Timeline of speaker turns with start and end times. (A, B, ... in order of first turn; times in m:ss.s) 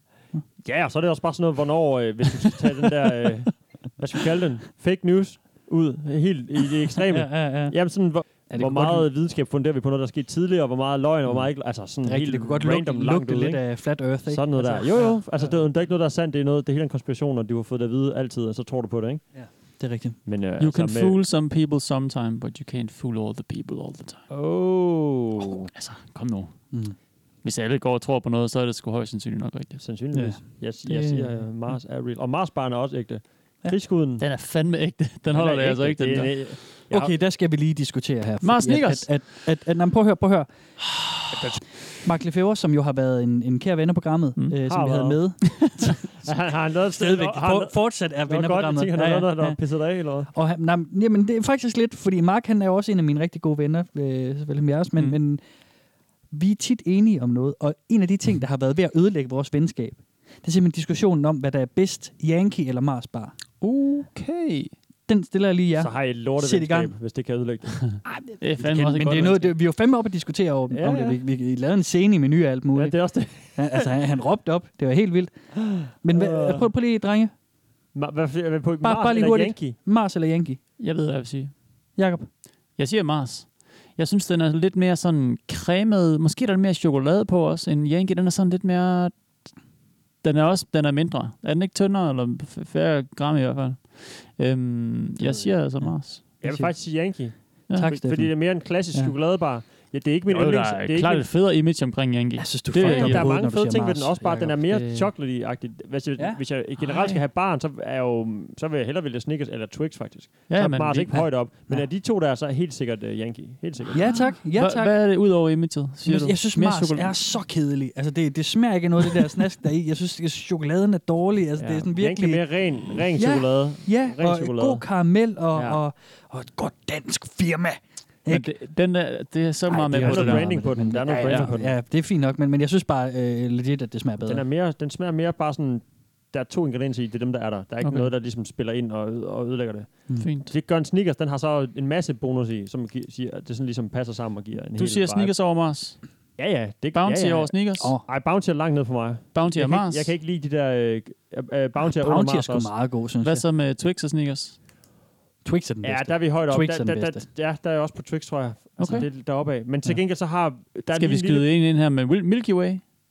0:00.6-0:19.3 A
0:07.1-0:09.1 B
0:11.3-0:15.7 B
0:19.4-0:20.2 B
0:20.3-0:21.2 A
0:20.6-0:24.2 C
0:24.3-0:25.7 A
0:25.7-0:26.5 C
0:26.7-0:27.0 B
0:27.4-0:29.8 C
0:29.8-0:34.2 A
0:30.1-0:31.5 B
0:34.2-0:36.5 C
0:35.3-0:37.1 A
0:36.9-0:41.3 B
0:38.4-0:39.2 C
0:41.3-0:41.6 A
0:42.0-0:49.6 B
0:44.7-0:45.5 A
0:46.2-0:50.3 A
0:50.3-0:55.4 B
0:56.3-1:03.4 B
1:03.6-1:04.7 C
1:05.1-1:07.0 B
1:05.8-1:08.1 A
1:08.0-1:17.3 B
1:08.4-1:09.5 C
1:10.7-1:11.2 A
1:12.8-1:13.9 A
1:15.6-1:16.7 A
1:18.0-1:19.8 A
1:18.8-1:20.6 B
1:20.8-1:21.5 C
1:22.0-1:22.3 B
1:22.8-1:29.2 C
1:30.2-1:36.2 C
1:35.2-1:35.5 A
1:35.8-1:37.1 B
1:36.4-1:41.3 A
1:37.7-1:39.1 B
1:40.3-1:43.3 C
1:42.4-1:45.1 B
1:42.8-1:54.3 A
1:46.2-1:46.4 B
1:46.8-1:47.2 C
1:50.5-1:51.3 C
1:51.1-1:51.9 B
1:53.9-1:55.2 B
1:54.1-1:57.2 C
1:56.0-2:08.5 B
2:01.6-2:04.9 A
2:05.5-2:05.8 A
2:08.3-2:11.5 C
2:09.7-2:14.5 B
2:10.0-2:11.8 A
2:14.2-2:25.4 A
2:17.8-2:18.1 C
2:20.1-2:20.3 B
2:20.2-2:20.5 C
2:24.8-2:26.0 C
2:26.4-2:32.7 A
2:26.9-2:28.0 C
2:27.8-2:28.1 B
2:29.3-2:30.1 C
2:31.9-2:33.4 B
2:33.2-2:34.6 C
2:35.4-2:37.2 B
2:35.8-2:41.5 A
2:38.8-2:39.1 C
2:40.9-2:42.8 C